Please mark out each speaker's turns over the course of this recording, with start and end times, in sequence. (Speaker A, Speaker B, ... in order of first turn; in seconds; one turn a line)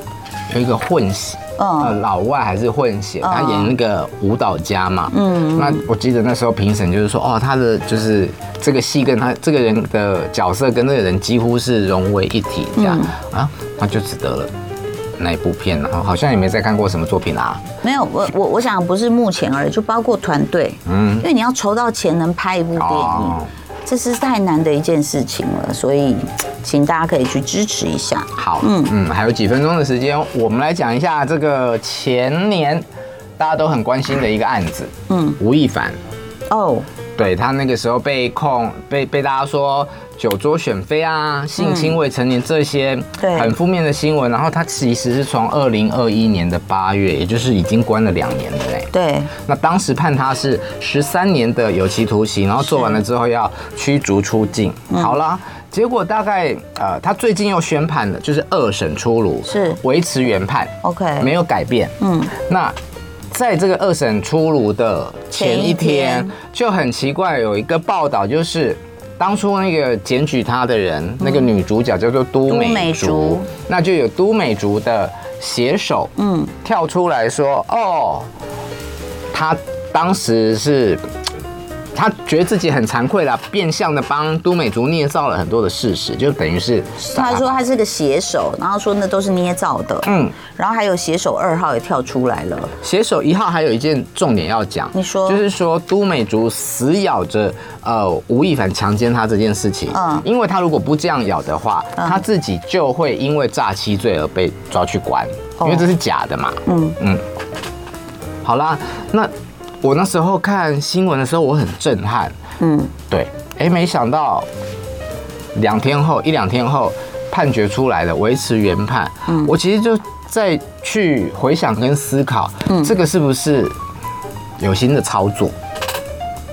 Speaker A: 0.5-14.5
Speaker B: 1.6-2.0
Speaker B: 3.2-3.7
Speaker B: 5.1-5.8
Speaker B: 12.8-13.1
Speaker A: 15.2-17.6
Speaker B: 17.8-28.9
Speaker A: 20.9-21.3
Speaker A: 22.8-23.5
Speaker A: 28.4-32.8
Speaker A: 33.4-36.0
Speaker B: 35.1-35.4
Speaker B: 36.5-36.9
Speaker A: 37.2-48.9
Speaker B: 41.6-41.9
Speaker B: 43.2-43.5
Speaker B: 48.9-49.3
Speaker A: 49.4-62.8
Speaker B: 52.7-53.0
Speaker B: 59.5-59.8
Speaker B: 60.8-61.3
Speaker B: 62.0-62.3
Speaker A: 63.3-76.1
Speaker B: 65.3-66.3
Speaker B: 71.2-71.5
Speaker B: 72.5-73.5
Speaker B: 76.2-76.5
Speaker A: 76.6-78.3
Speaker A: 79.3-81.0
Speaker A: 81.9-87.6
Speaker B: 87.0-92.7
Speaker A: 90.0-90.4
Speaker A: 92.8-107.2
Speaker B: 94.9-95.4
Speaker B: 99.9-100.2
Speaker B: 102.0-102.2
Speaker B: 105.6-105.9
Speaker B: 106.7-107.0
Speaker A: 108.4-112.3
Speaker B: 112.6-112.9
Speaker A: 113.1-114.5
Speaker A: 115.5-123.7
Speaker B: 119.3-119.5
Speaker A: 124.6-125.5